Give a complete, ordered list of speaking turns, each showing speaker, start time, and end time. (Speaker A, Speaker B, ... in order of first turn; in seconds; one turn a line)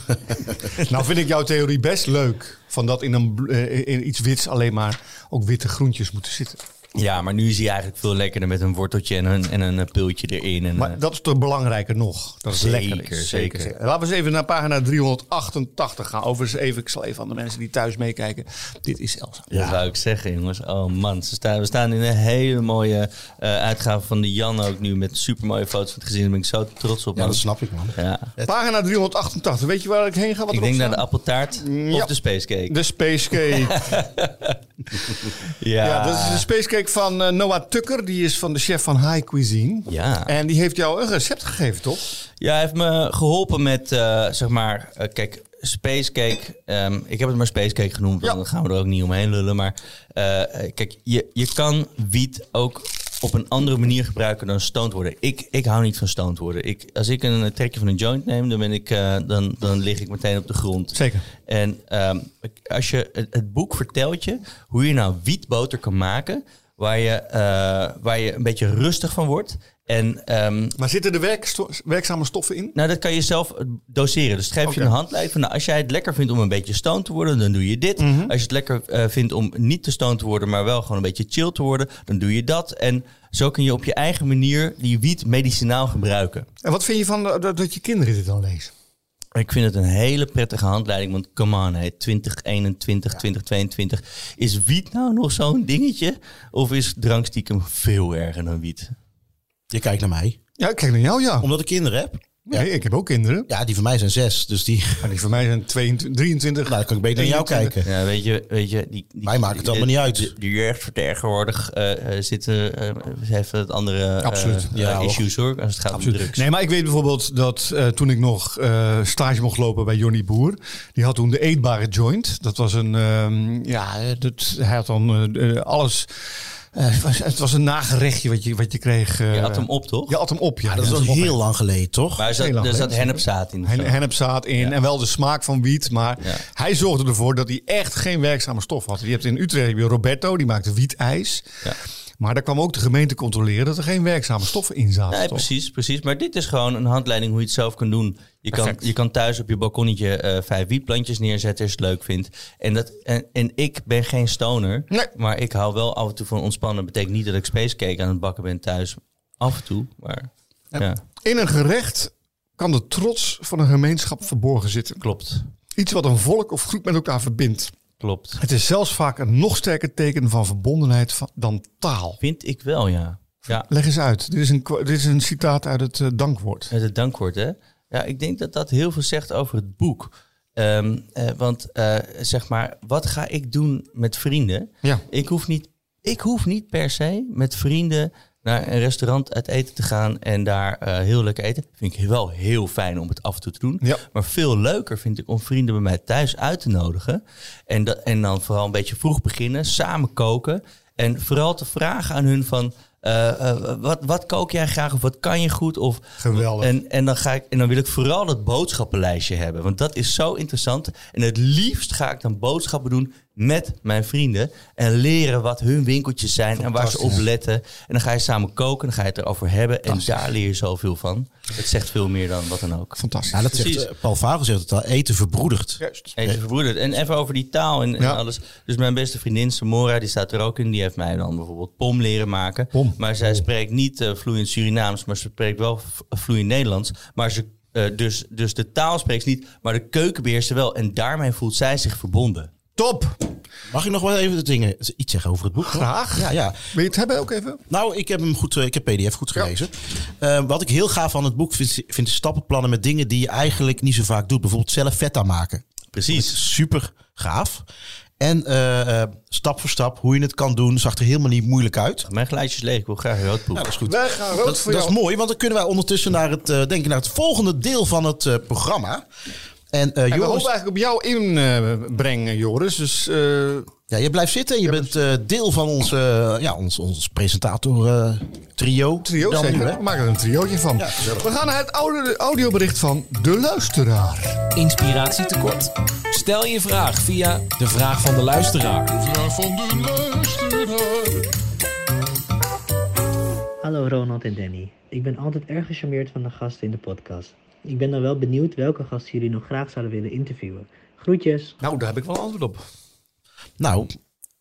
Speaker A: 0.7-6.6
Speaker B: 7.0-11.0
Speaker A: 10.8-19.5
Speaker B: 12.5-13.7
Speaker C: 19.5-19.8
Speaker B: 19.5-27.4
Speaker C: 27.2-28.5
Speaker B: 27.9-28.3
Speaker A: 28.5-31.0
Speaker B: 30.5-32.8
Speaker A: 31.6-32.1
Speaker A: 32.7-34.0
Speaker B: 33.5-36.5
Speaker A: 35.8-42.0
Speaker B: 39.9-40.3
Speaker B: 42.4-70.8
Speaker A: 60.9-61.2
Speaker A: 70.8-72.8
Speaker B: 72.8-86.5
Speaker A: 74.7-74.9
Speaker A: 78.0-78.3
Speaker A: 86.6-88.7
Speaker B: 89.3-99.0
Speaker C: 99.7-100.4
Speaker A: 100.6-101.5
Speaker C: 101.4-102.7
Speaker A: 102.5-103.5
Speaker C: 103.5-105.2
Speaker A: 105.0-107.8
Speaker C: 106.7-107.9
Speaker B: 107.8-116.5
Speaker C: 109.2-110.3
Speaker A: 114.2-114.7
Speaker C: 114.7-115.2
Speaker A: 115.9-126.1
Speaker A: 126.7-131.4
Speaker B: 129.3-130.2
Speaker C: 130.7-132.2
Speaker B: 132.2-133.9
Speaker A: 132.3-141.5
Speaker A: 142.2-145.5
Speaker B: 145.1-161.0
Speaker A: 148.5-148.8
Speaker A: 161.2-165.0
Speaker B: 165.0-165.4
Speaker A: 165.8-167.7
Speaker B: 168.0-168.4
Speaker A: 168.4-172.2
Speaker B: 172.2-173.7
Speaker A: 173.5-176.7
Speaker B: 176.7-223.9
Speaker A: 206.2-206.7
Speaker A: 216.6-217.2
Speaker A: 223.0-223.5
Speaker C: 223.3-226.4
Speaker A: 225.8-226.1
Speaker B: 226.2-242.5
Speaker A: 232.7-233.4
Speaker A: 242.8-243.2
Speaker C: 243.7-246.7
Speaker A: 245.6-247.6
Speaker C: 247.7-257.6
Speaker B: 255.9-256.4
Speaker C: 258.2-262.1
Speaker B: 262.1-263.7
Speaker C: 263.5-269.1
Speaker A: 263.9-264.9
Speaker C: 269.7-270.5
Speaker A: 270.1-273.7
Speaker C: 273.9-279.8
Speaker A: 274.7-274.9
Speaker A: 279.0-284.4
Speaker C: 280.8-281.3
Speaker D: 284.6-291.3
Speaker E: 293.6-301.6
Speaker A: 301.6-302.6
Speaker C: 303.6-303.9